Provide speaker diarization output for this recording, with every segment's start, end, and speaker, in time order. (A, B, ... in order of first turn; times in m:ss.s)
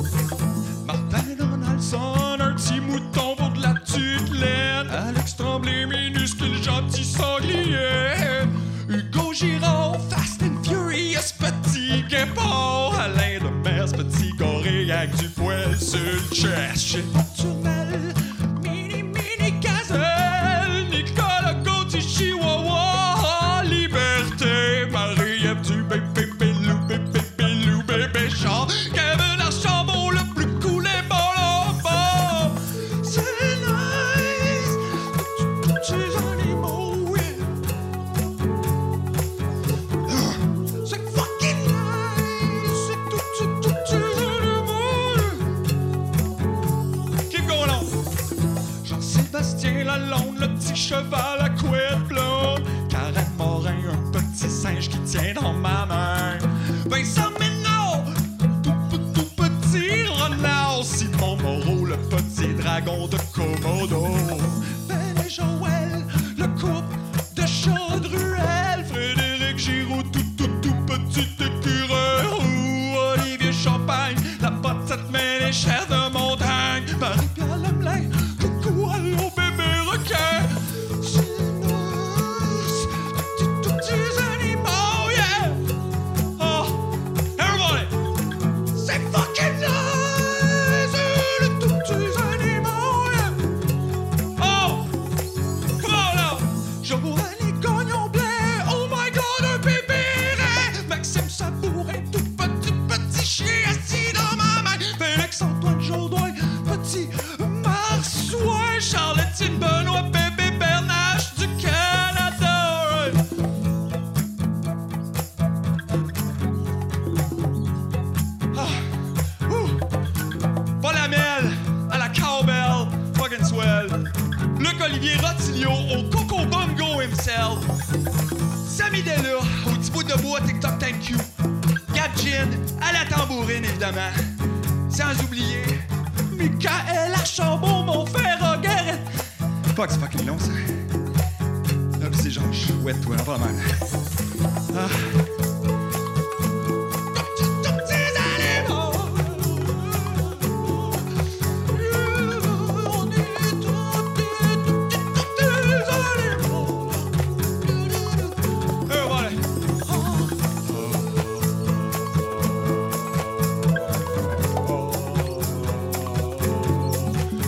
0:00.8-0:37.6 A
0:40.0-0:45.6 A
0:47.3-0:47.9 A
0:48.8-1:25.6 A
1:26.4-1:26.8 A
1:27.4-1:28.0 A
1:28.7-1:33.4 A
1:34.4-1:34.9 A
1:35.8-1:53.2 A
1:58.5-1:59.8 A
2:00.8-2:07.7 A
2:08.6-2:11.3 A
2:11.9-2:14.2 A
2:14.9-2:19.1 A
2:19.7-2:20.8 A
2:22.0-2:23.6 A
2:24.7-2:25.2 A
2:27.1-2:31.0 A
2:31.7-2:47.2 A